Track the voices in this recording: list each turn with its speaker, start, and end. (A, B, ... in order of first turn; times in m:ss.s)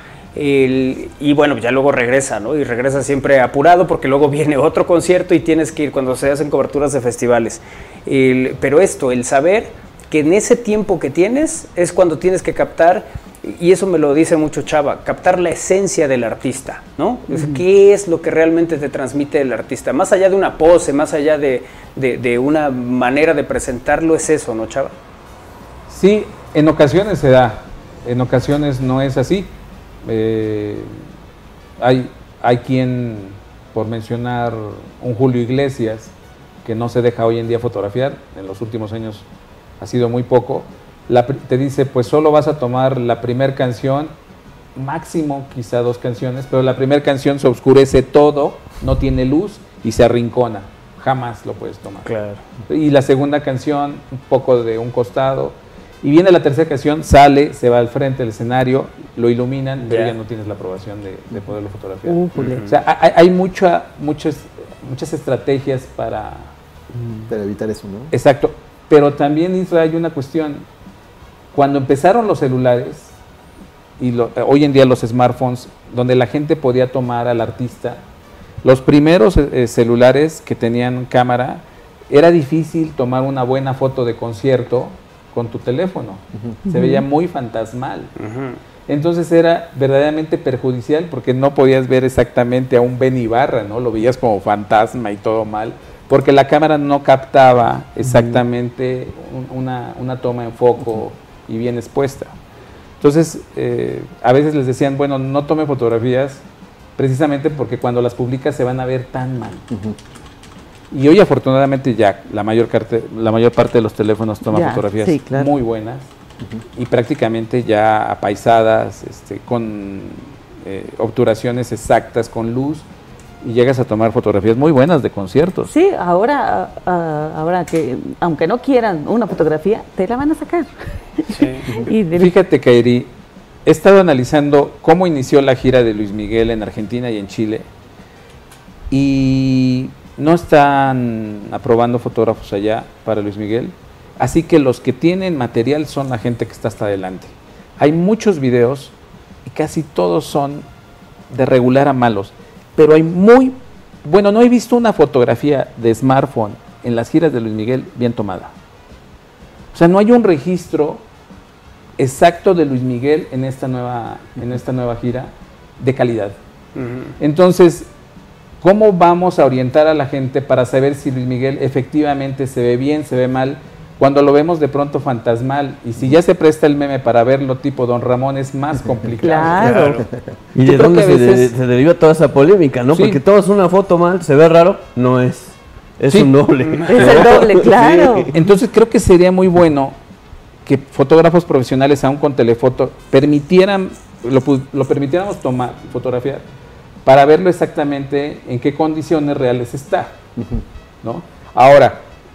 0:00.4-0:24.9 A
0:17.3-0:17.6 B
0:25.9-0:29.5 C
0:30.0-0:31.0 C
0:31.8-0:36.1 C
0:36.6-0:39.3 C
0:39.8-0:44.1 C
0:44.8-0:52.1 C
0:52.1-0:52.4 A
0:52.7-1:06.5 C
0:59.8-1:00.1 A
1:02.0-1:02.7 B
1:02.4-1:02.7 A
1:07.3-1:08.1 D
1:08.1-1:10.6 C
1:11.5-1:13.2 C
1:14.0-1:18.0 C
1:18.6-1:28.1 C
1:26.6-1:27.0 B
1:28.2-1:28.6 A
1:28.9-1:42.4 C
1:38.0-1:38.4 E
1:43.0-1:46.4 C
1:47.0-1:49.6 C
1:49.7-1:50.0 D
1:50.9-1:56.1 C
1:54.5-1:55.5 B
1:56.8-2:02.9 C
2:03.4-2:05.7 C
2:05.6-2:12.3 B
2:11.3-2:11.6 A
2:12.1-2:13.1 C
2:13.6-2:17.7 C
2:18.9-2:28.9 C
2:29.4-2:30.6 C
2:31.3-2:38.5 C
2:39.7-2:41.0 C
2:42.0-2:46.4 C
2:46.7-2:47.2 A
2:47.2-2:47.9 C
2:48.6-2:59.8 C
2:58.8-3:00.3 D
2:59.2-3:00.0 B
2:59.5-3:00.1 A
3:00.6-3:08.3 E
3:00.6-3:01.5 C
3:02.9-3:03.2 C
3:06.6-3:07.2 A
3:06.9-3:08.3 B
3:08.3-3:10.0 C
3:10.6-3:16.4 C
3:17.1-3:20.2 C
3:20.4-3:20.6 D
3:21.0-3:22.0 C